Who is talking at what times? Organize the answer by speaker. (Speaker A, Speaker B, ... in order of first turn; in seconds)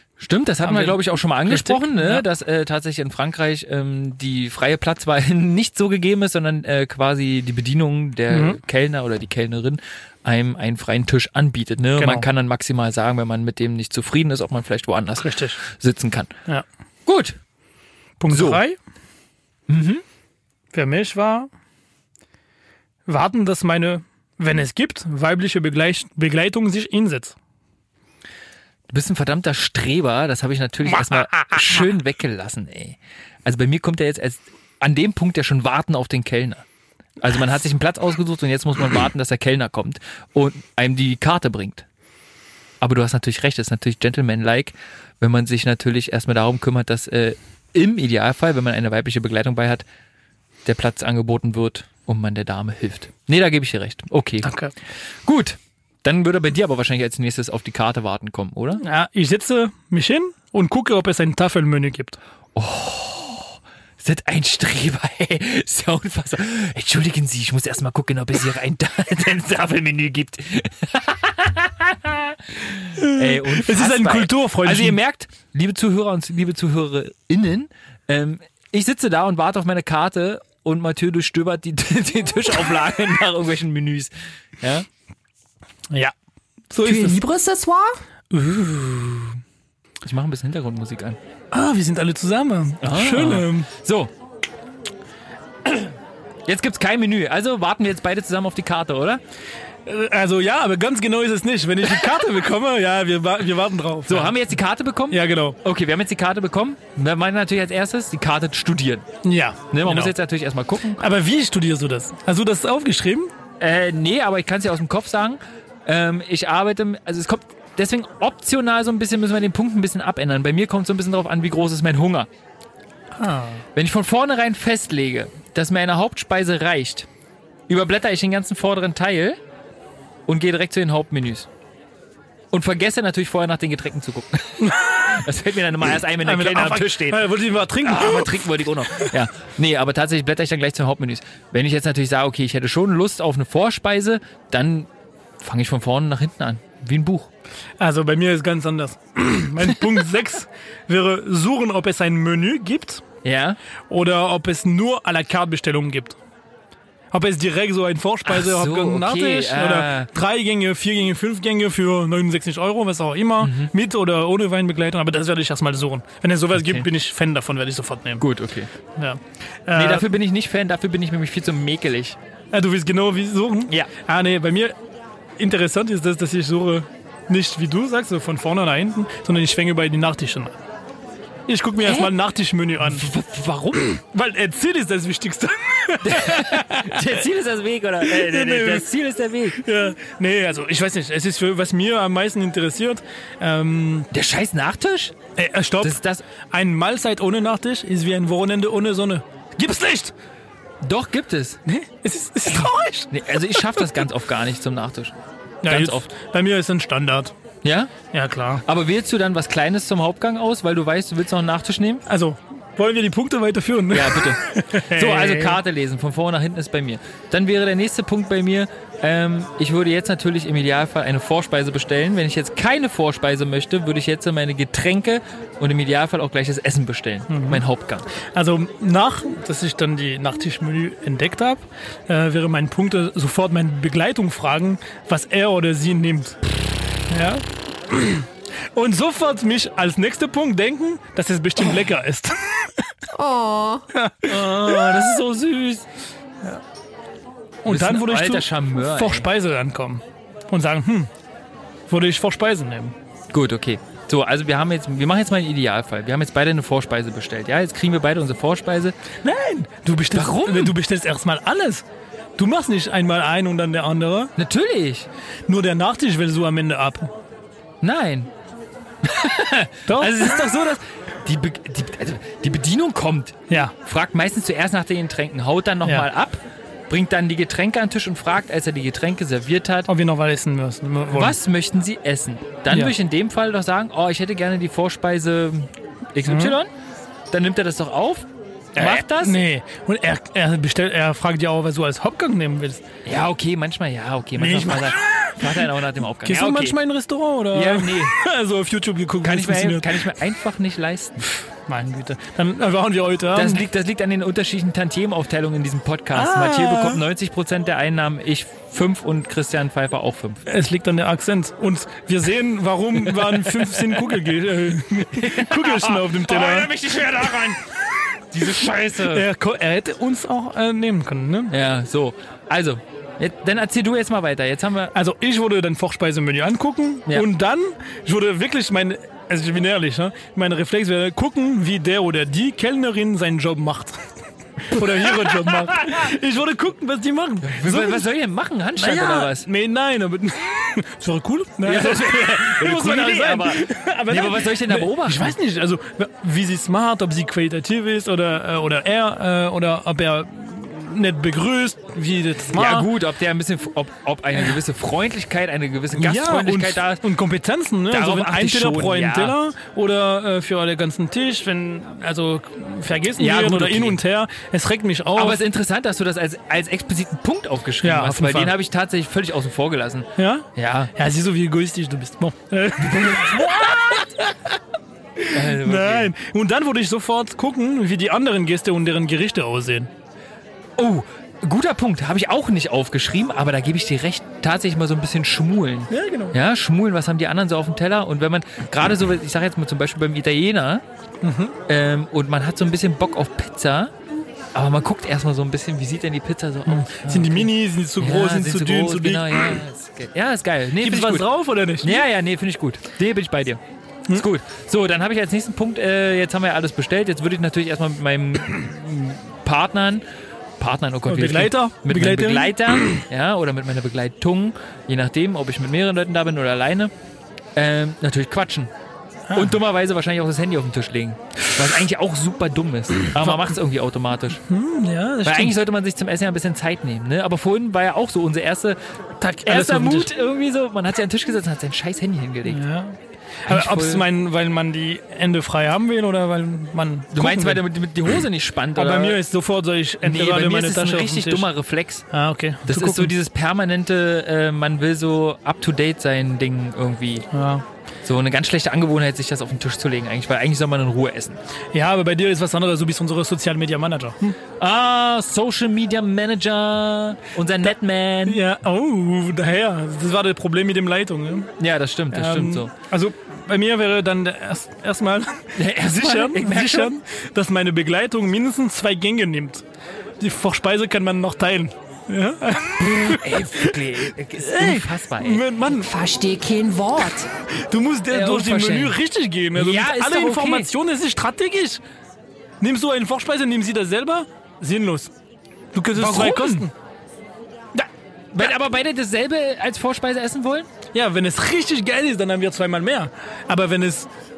Speaker A: 0.2-16.3, 17.1-17.4, 18.3-18.6, 19.7-20.0, 28.9-36.6, 37.2-41.8, 42.8-49.8, 50.6-54.5, 55.2-58.8, 62.5-84.9, 90.0-91.2, 92.8-94.1, 96.5-99.2, 104.1-109.1, 109.7-111.0, 113.6-122.3, 123.7-127.1, 127.7-129.4, 130.3-131.5, 132.5-137.3, 137.8-144.9, 145.4-147.3, 153.2-153.6, 158.3-160.1, 163.4-163.7, 166.6-166.9, 168.2-168.7, 169.7-172.2, 181.8-182.1, 182.8-184.0, 186.0-189.6, 194.1-195.2, 195.8-196.2, 200.8-201.6, 202.5-205.1, 205.7-206.1, 207.6-207.9, 208.6-212.0, 213.9-228.1, 244.3-245.8, 247.7-249.3, 253.3-258.9, 260.1-260.7, 264.4-265.1, 267.8-268.3, 269.0-279.9, 281.1-286.7, 287.3-289.4, 293.0-296.8, 297.5-298.2, 299.2-301.2, 303.3-310.4, 313.1-314.1, 315.1-317.6, 318.3-319.2, 321.5-324.9, 335.1-336.0, 337.4-339.5, 341.6-345.3, 352.5-357.0, 357.9-359.4, 363.2-364.0, 365.1-370.9, 372.8-374.0, 375.3-376.1, 380.8-390.8, 391.7-393.9, 394.5-401.3, 401.8-403.6, 404.1-410.0, 410.6-416.9, 417.6-418.7, 419.3-424.4, 425.2-428.8, 429.4-432.6, 433.5-434.0, 437.1-439.2, 440.0-442.1, 442.6-447.3, 448.0-451.4, 454.6-458.4, 461.6-462.7, 465.5-467.0, 472.8-475.4, 478.1-479.0, 479.5-480.7, 485.9-486.7, 488.3-490.7
Speaker B: 0.6-2.2, 8.3-8.6, 12.0-12.3, 15.2-15.6, 18.2-18.8, 20.7-21.5, 23.1-27.4, 54.4-54.7, 58.8-62.2, 73.0-75.0, 86.7-87.2, 88.3-89.3, 91.5-93.7, 99.8-104.4, 105.1-105.6, 109.2-110.1, 111.0-113.3, 123.2-123.6, 134.6-135.0, 136.2-139.1, 147.8-153.0, 153.9-156.2, 157.1-168.2, 168.9-170.1, 172.5-174.8, 175.4-180.6, 181.5-183.1, 184.0-187.1, 188.0-188.9, 189.5-194.1, 195.4-196.0, 196.5-200.1, 201.7-203.9, 205.6-207.3, 208.1-208.6, 212.1-215.6, 227.3-227.6, 228.3-236.4, 237.1-242.8, 243.9-245.2, 247.6-251.1, 251.9-252.9, 259.2-261.8, 262.4-264.3, 265.5-267.1, 269.9-270.1, 279.9-281.3, 286.2-286.5, 288.8-292.8, 294.4-295.6, 296.2-300.0, 301.7-303.6, 306.1-307.0, 310.5-316.7, 319.1-321.5, 324.9-334.0, 334.6-338.1, 338.8-352.9, 355.9-365.4, 367.8-368.5, 370.2-374.5, 375.2-379.9, 385.9-386.3, 391.2-391.5, 396.7-399.6, 400.8-402.0, 411.1-413.0, 419.3-419.6, 423.2-423.5, 424.5-425.6, 429.2-430.1, 432.4-437.6, 438.8-441.5, 442.1-443.1, 447.3-447.6, 451.7-454.4, 458.2-461.5, 462.1-469.6, 470.2-473.7, 474.4-475.9, 477.5-481.8, 482.6-485.1, 485.7-486.7, 490.9-494.1
Speaker C: 86.8-88.0, 243.1-243.8, 475.7-477.3